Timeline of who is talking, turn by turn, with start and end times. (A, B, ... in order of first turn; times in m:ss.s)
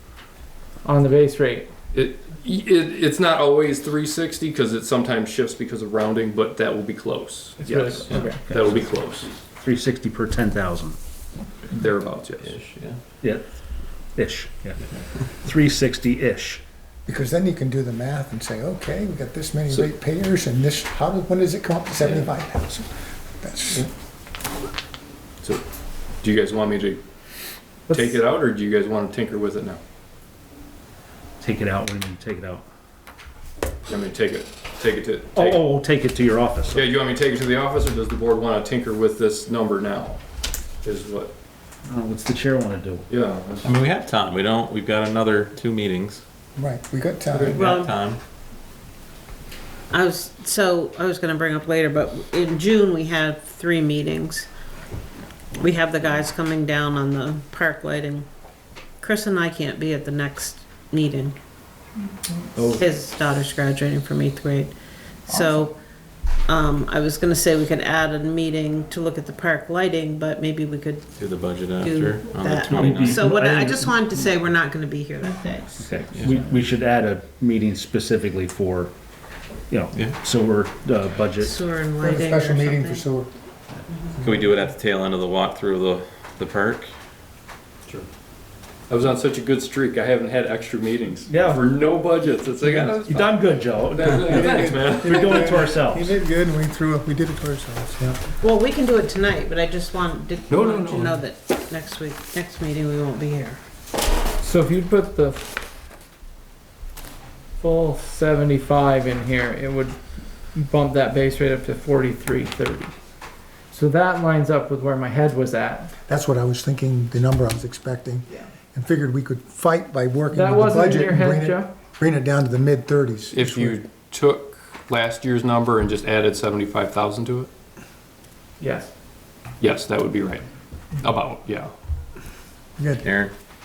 0:00.8-0:01.7 A
0:01.9-0:09.4 B
0:07.6-0:08.5 A
0:08.0-0:08.8 C
0:09.4-0:11.0 C
0:11.7-0:12.7 B
0:12.6-0:13.0 D
0:13.2-0:13.5 C
0:14.2-0:16.6 C
0:17.1-0:22.9 E
0:23.4-0:23.9 E
0:26.2-0:27.0 B
0:27.9-0:29.8 B
0:27.9-0:28.2 A
0:31.4-0:32.6 C
0:33.9-0:35.7 B
0:35.4-0:36.8 C
0:36.7-0:40.2 B
0:40.8-0:41.3 B
0:41.8-0:43.0 C
0:43.1-0:43.8 B
0:43.6-0:46.2 D
0:46.6-0:47.7 E
0:47.3-0:48.2 D
0:47.6-0:47.9 F
0:49.9-0:54.5 F
0:55.6-0:58.3 F
0:59.0-1:01.4 F
1:02.6-1:02.8 C
1:02.8-1:04.7 F
1:05.3-1:05.8 F
1:05.4-1:05.6 E
1:06.5-1:11.2 F
1:11.2-1:13.2 D
1:11.7-1:15.8 F
1:12.6-1:14.0 C
1:15.8-1:18.9 C
1:16.1-1:16.4 D
1:19.7-1:21.6 C
1:19.9-1:20.2 D
1:21.4-1:23.0 F
1:22.0-1:23.3 E
1:23.9-1:24.2 F
1:24.2-1:26.9 D
1:24.2-1:24.5 E
1:28.9-1:35.2 B
1:31.3-1:31.6 C
1:32.9-1:36.1 C
1:34.2-1:38.2 E
1:38.4-1:43.6 F
1:40.5-1:41.1 B
1:44.4-1:45.5 A
1:47.6-1:50.0 A
1:50.5-1:53.0 A
1:53.7-1:55.9 A
1:56.1-2:03.8 E
2:00.3-2:01.7 A
2:03.3-2:07.5 B
2:08.6-2:08.9 A
2:09.6-2:11.7 B
2:12.8-2:13.1 E
2:13.0-2:13.3 D